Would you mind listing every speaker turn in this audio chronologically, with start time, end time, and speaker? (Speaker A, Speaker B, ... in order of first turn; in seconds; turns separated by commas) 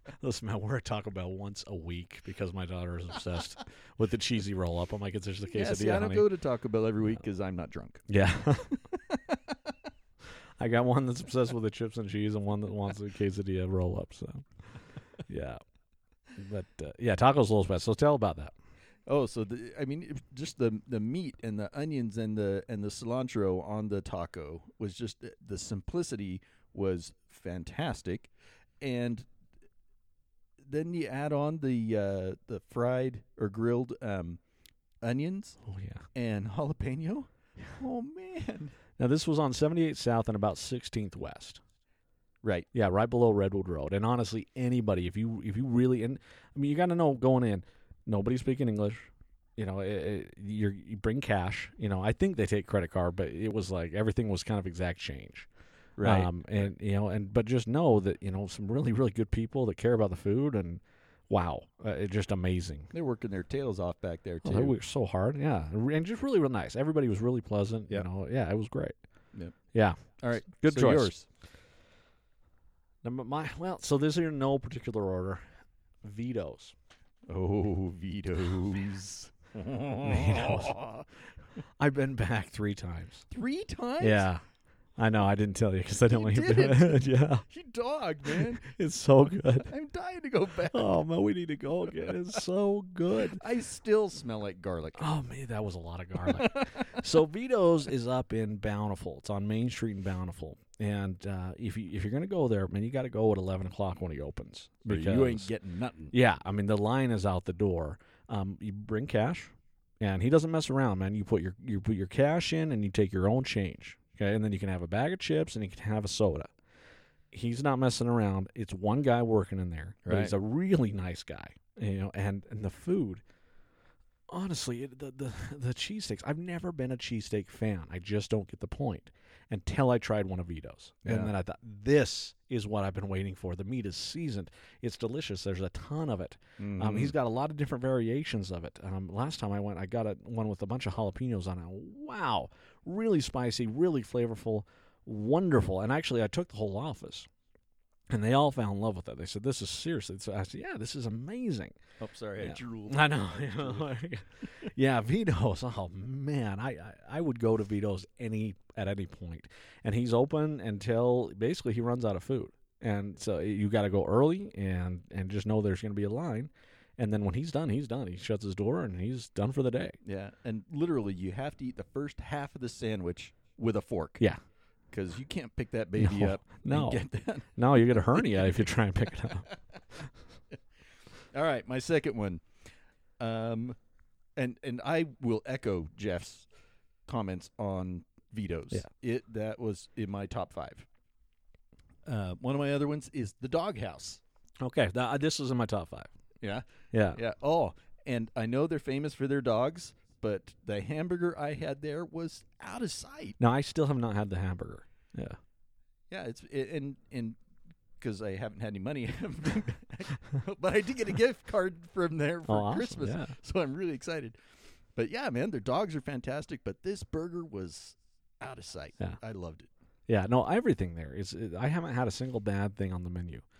Speaker A: 0.2-6.3, Speaker B: 5.5-8.1, Speaker A: 8.1-8.8, Speaker B: 9.1-9.4, Speaker A: 10.6-14.7, Speaker A: 15.3-15.6, Speaker A: 16.4-18.5, Speaker B: 19.1-29.3, Speaker B: 30.6-34.4, Speaker B: 35.0-35.6, Speaker A: 35.6-36.0, Speaker B: 36.1-38.8, Speaker A: 39.0-41.6, Speaker B: 42.4-42.7, Speaker A: 42.7-55.5, Speaker B: 56.0-56.3, Speaker A: 56.0-62.9, Speaker B: 62.9-64.8, Speaker A: 64.4-69.0, Speaker A: 69.7-71.1, Speaker B: 70.2-71.3, Speaker A: 73.0-75.4, Speaker A: 76.0-76.8, Speaker B: 77.3-81.1, Speaker A: 80.0-80.8, Speaker A: 81.8-83.3, Speaker B: 83.3-84.3, Speaker A: 84.0-84.4, Speaker A: 85.0-87.5, Speaker B: 86.1-88.7, Speaker A: 88.3-89.7, Speaker B: 89.7-91.0, Speaker A: 90.7-93.4, Speaker B: 93.3-95.1, Speaker A: 95.0-105.5, Speaker B: 96.3-97.0, Speaker B: 104.9-106.2, Speaker A: 106.1-116.5, Speaker A: 117.3-123.2, Speaker B: 120.0-120.3, Speaker A: 124.3-147.3, Speaker B: 131.1-131.3, Speaker B: 136.6-137.2, Speaker A: 148.1-151.8, Speaker B: 152.0-154.0, Speaker A: 152.4-170.0, Speaker B: 170.0-174.3, Speaker B: 174.9-178.4, Speaker A: 176.0-179.5, Speaker B: 181.3-182.5, Speaker B: 183.2-183.8, Speaker B: 184.4-186.5, Speaker B: 187.1-190.9, Speaker B: 192.1-194.2, Speaker A: 194.6-196.1, Speaker B: 196.4-203.4, Speaker A: 196.9-197.2, Speaker A: 203.4-205.4, Speaker B: 206.1-207.4, Speaker B: 208.0-214.4, Speaker A: 212.5-213.3, Speaker B: 215.0-219.7, Speaker A: 220.1-223.4